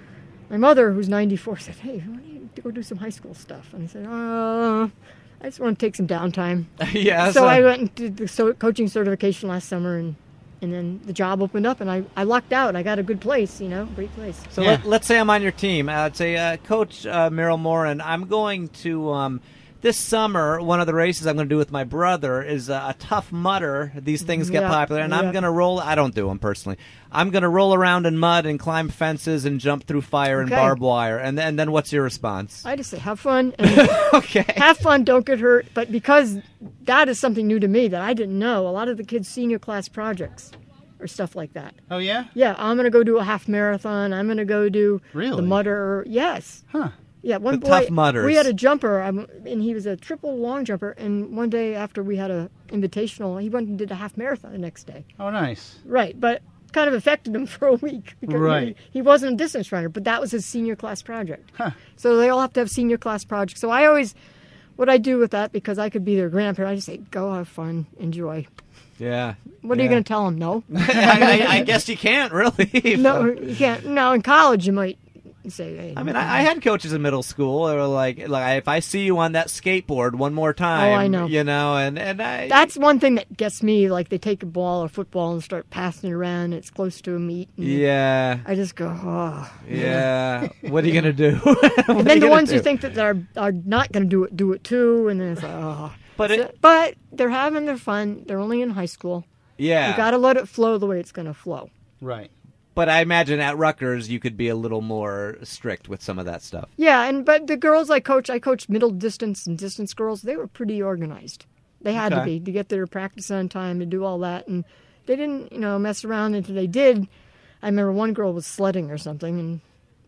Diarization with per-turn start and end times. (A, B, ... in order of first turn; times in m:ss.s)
0:00.5-0:14.5 A
0:06.8-0:07.7 B
0:14.5-0:32.6 B
0:14.6-0:14.8 C
0:24.2-0:25.4 A
0:30.4-0:30.8 A
0:32.6-0:41.8 A
0:33.6-0:34.6 B
0:41.9-0:42.3 C
0:42.3-0:46.6 A
0:45.1-0:45.6 C
0:47.2-0:55.0 A
0:47.5-0:48.5 B
0:55.2-0:55.8 C
0:55.8-1:04.1 A
0:58.3-0:58.8 C
1:04.8-1:08.5 A
1:09.0-1:09.9 B
1:09.6-1:11.7 A
1:10.7-1:13.4 B
1:11.0-1:11.5 C
1:12.9-1:16.4 A
1:16.0-1:22.6 B
1:20.7-1:21.3 A
1:22.5-1:27.8 A
1:27.6-1:28.4 B
1:28.4-1:30.0 A
1:29.6-1:32.7 B
1:29.7-1:30.7 C
1:32.0-1:39.2 A
1:36.2-1:36.4 B
1:39.6-1:40.1 B
1:39.8-1:41.7 A
1:42.0-1:42.3 C
1:42.7-1:46.7 B
1:46.8-1:57.1 A
1:51.9-1:52.3 B
1:57.6-1:59.6 A